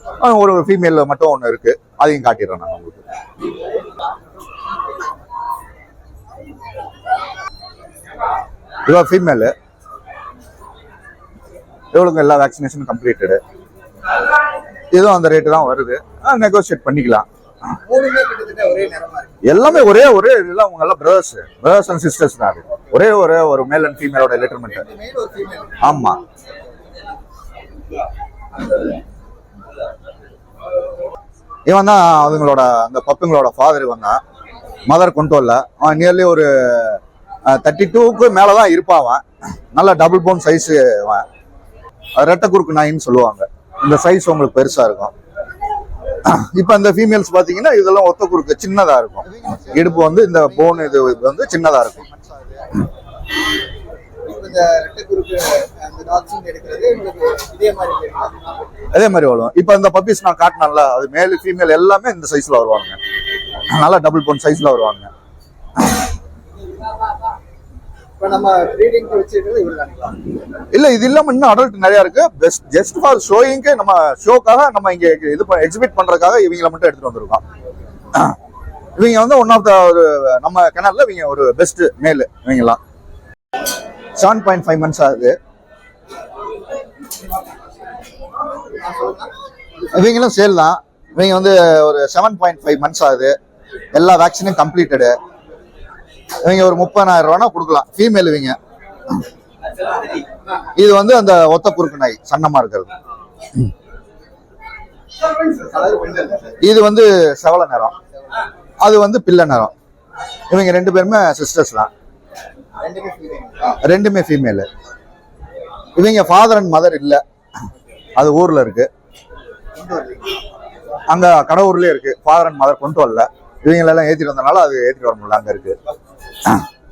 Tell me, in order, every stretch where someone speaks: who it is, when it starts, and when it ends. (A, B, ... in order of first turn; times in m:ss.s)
0:00.2-0:03.0 A
0:08.8-0:09.5 A
0:11.9-0:13.4 A
0:14.9-0:17.2 A
0:17.8-0:19.9 B
0:19.4-0:24.8 A
0:24.7-0:25.9 B
0:25.8-0:26.2 A
0:31.7-0:34.2 A
0:34.9-0:41.2 A
0:42.2-0:45.1 A
0:46.2-0:52.1 A
0:49.3-0:51.4 B
0:52.1-0:52.5 B
0:54.2-0:58.7 B
0:58.9-1:03.0 A
1:03.7-1:05.1 A
1:08.2-1:10.3 B
1:10.7-1:17.4 A
1:19.0-1:22.8 A
1:24.2-1:25.4 A
1:28.8-1:29.3 B
1:29.9-1:33.3 A
1:33.9-1:35.1 A
1:36.4-1:38.6 A
1:40.7-1:42.9 A
1:45.4-1:46.6 B
1:46.6-1:47.9 A
1:48.8-1:49.7 A
1:50.5-1:51.9 A
1:52.8-1:53.7 B
1:53.7-1:54.7 A
1:56.0-1:57.2 A
1:58.2-1:58.9 A
1:59.8-2:00.3 B
2:01.1-2:05.8 A